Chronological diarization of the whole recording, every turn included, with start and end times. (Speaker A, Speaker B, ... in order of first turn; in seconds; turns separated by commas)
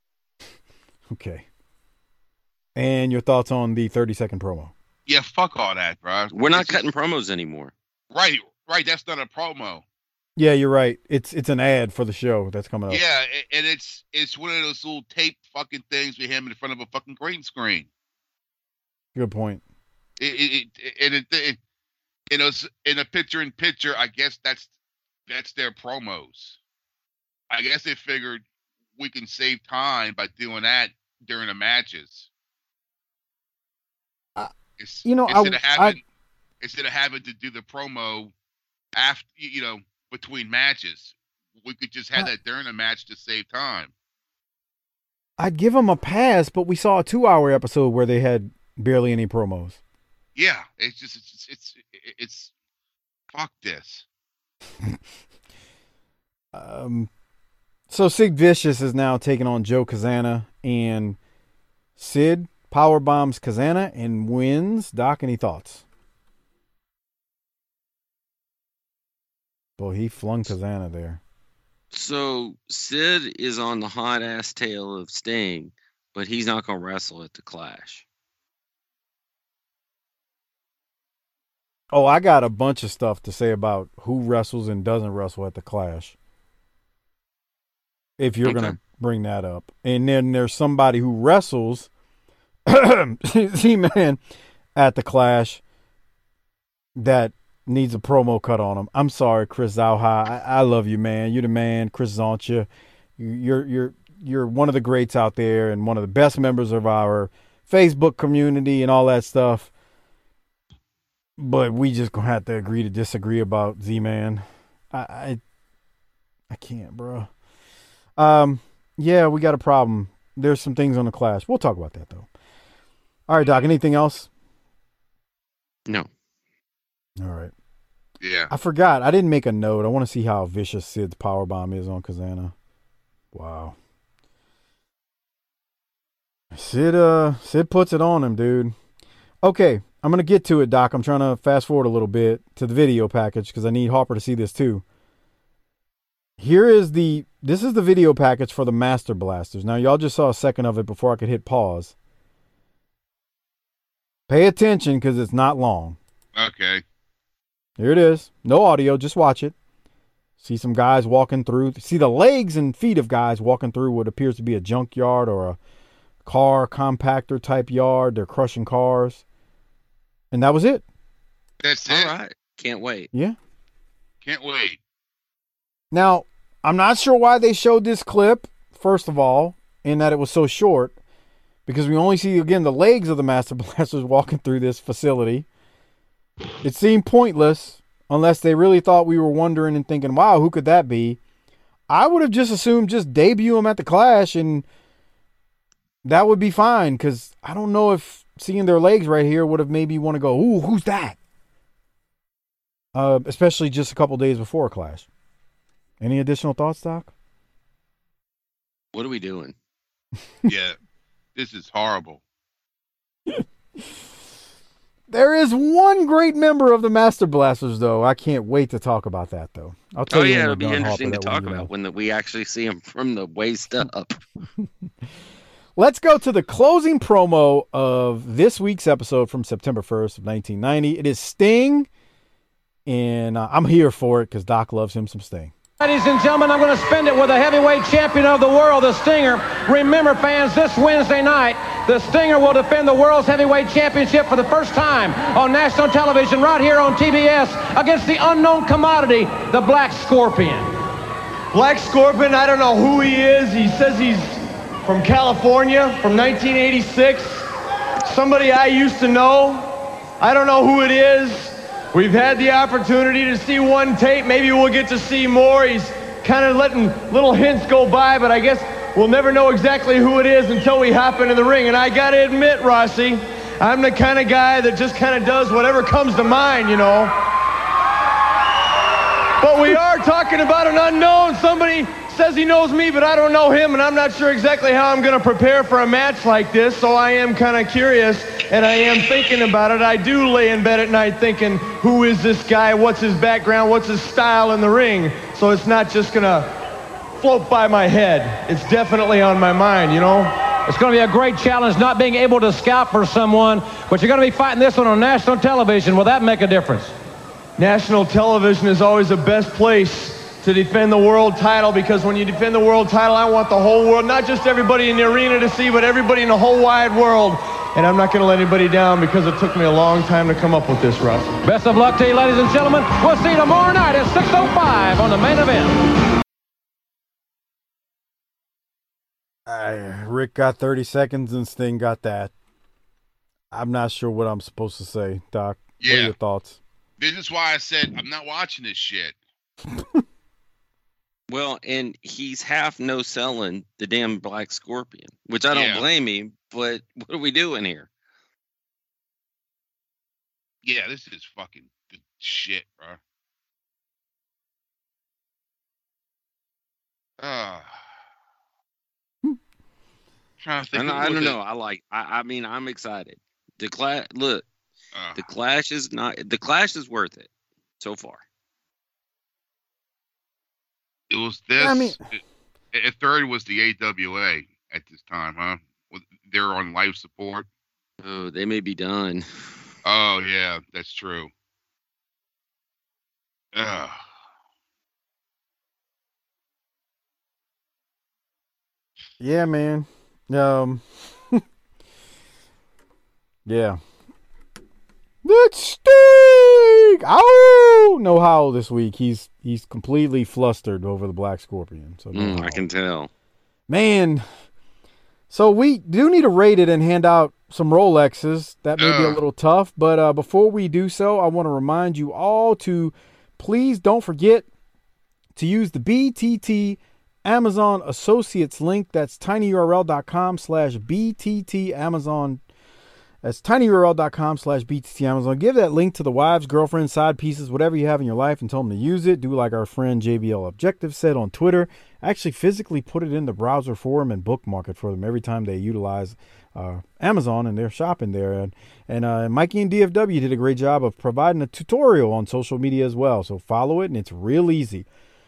Speaker A: 1.1-1.5, Speaker A: 2.8-4.7, Speaker B: 5.1-6.8, Speaker C: 6.3-7.7, Speaker B: 8.1-9.8, Speaker A: 10.4-13.0, Speaker B: 12.9-17.9, Speaker A: 19.1-19.6, Speaker B: 20.2-21.6, Speaker B: 22.3-24.7, Speaker B: 25.3-26.6, Speaker B: 27.5-28.4, Speaker B: 29.0-32.3, Speaker B: 34.8-36.0, Speaker A: 35.0-36.0, Speaker B: 36.6-38.3, Speaker B: 39.0-43.9, Speaker A: 45.4-49.8, Speaker B: 50.4-52.5, Speaker B: 53.3-54.0, Speaker A: 56.5-57.1, Speaker A: 57.9-61.2, Speaker A: 62.0-65.8, Speaker A: 69.8-71.2, Speaker C: 71.9-78.0, Speaker A: 81.9-86.2, Speaker A: 88.2-91.9, Speaker C: 88.5-88.8, Speaker A: 92.7-94.2, Speaker A: 94.8-95.6, Speaker A: 97.0-109.7, Speaker A: 111.4-115.4, Speaker A: 116.5-117.3, Speaker A: 118.2-122.3, Speaker A: 123.3-124.3, Speaker A: 127.2-127.5, Speaker B: 128.2-128.5, Speaker A: 128.5-132.5, Speaker A: 133.3-133.8, Speaker A: 136.5-138.8, Speaker A: 139.4-144.8, Speaker A: 146.4-151.9, Speaker A: 154.3-156.0, Speaker B: 156.4-156.8, Speaker A: 157.8-159.6, Speaker A: 160.4-165.6, Speaker A: 166.2-169.2, Speaker A: 170.3-170.8, Speaker B: 171.6-172.1, Speaker C: 171.9-173.1, Speaker B: 174.2-174.8, Speaker A: 175.9-181.0, Speaker A: 181.7-185.5, Speaker A: 186.6-191.2, Speaker A: 191.9-194.7, Speaker A: 196.0-201.2, Speaker A: 202.9-205.1, Speaker A: 206.0-207.1, Speaker C: 208.9-209.6, Speaker B: 210.5-210.8, Speaker B: 211.4-212.2, Speaker A: 215.1-221.7, Speaker C: 220.1-224.2, Speaker A: 225.8-231.9, Speaker A: 232.9-235.5, Speaker D: 235.8-250.7, Speaker E: 251.5-257.5, Speaker E: 258.0-259.7, Speaker E: 260.2-277.1, Speaker E: 279.4-296.5, Speaker E: 297.2-300.3, Speaker D: 300.7-306.9, Speaker E: 307.6-321.4, Speaker D: 321.4-325.8, Speaker A: 329.5-332.3, Speaker A: 333.5-336.6, Speaker B: 335.8-336.1, Speaker B: 337.0-339.2, Speaker C: 341.3-347.9, Speaker B: 345.5-345.8, Speaker B: 350.6-353.0, Speaker B: 357.2-357.8, Speaker B: 360.4-361.4, Speaker C: 360.7-364.4, Speaker B: 364.9-365.2, Speaker C: 365.2-368.2, Speaker B: 371.1-372.0, Speaker A: 371.6-372.0, Speaker B: 372.7-377.5, Speaker C: 378.0-379.3, Speaker B: 379.9-381.3, Speaker B: 383.5-384.0, Speaker A: 389.2-391.4, Speaker A: 393.5-393.8, Speaker A: 395.2-402.6, Speaker C: 402.1-403.1, Speaker A: 403.7-404.2, Speaker A: 405.3-414.5, Speaker B: 408.8-409.2, Speaker A: 415.4-422.4, Speaker A: 423.2-444.9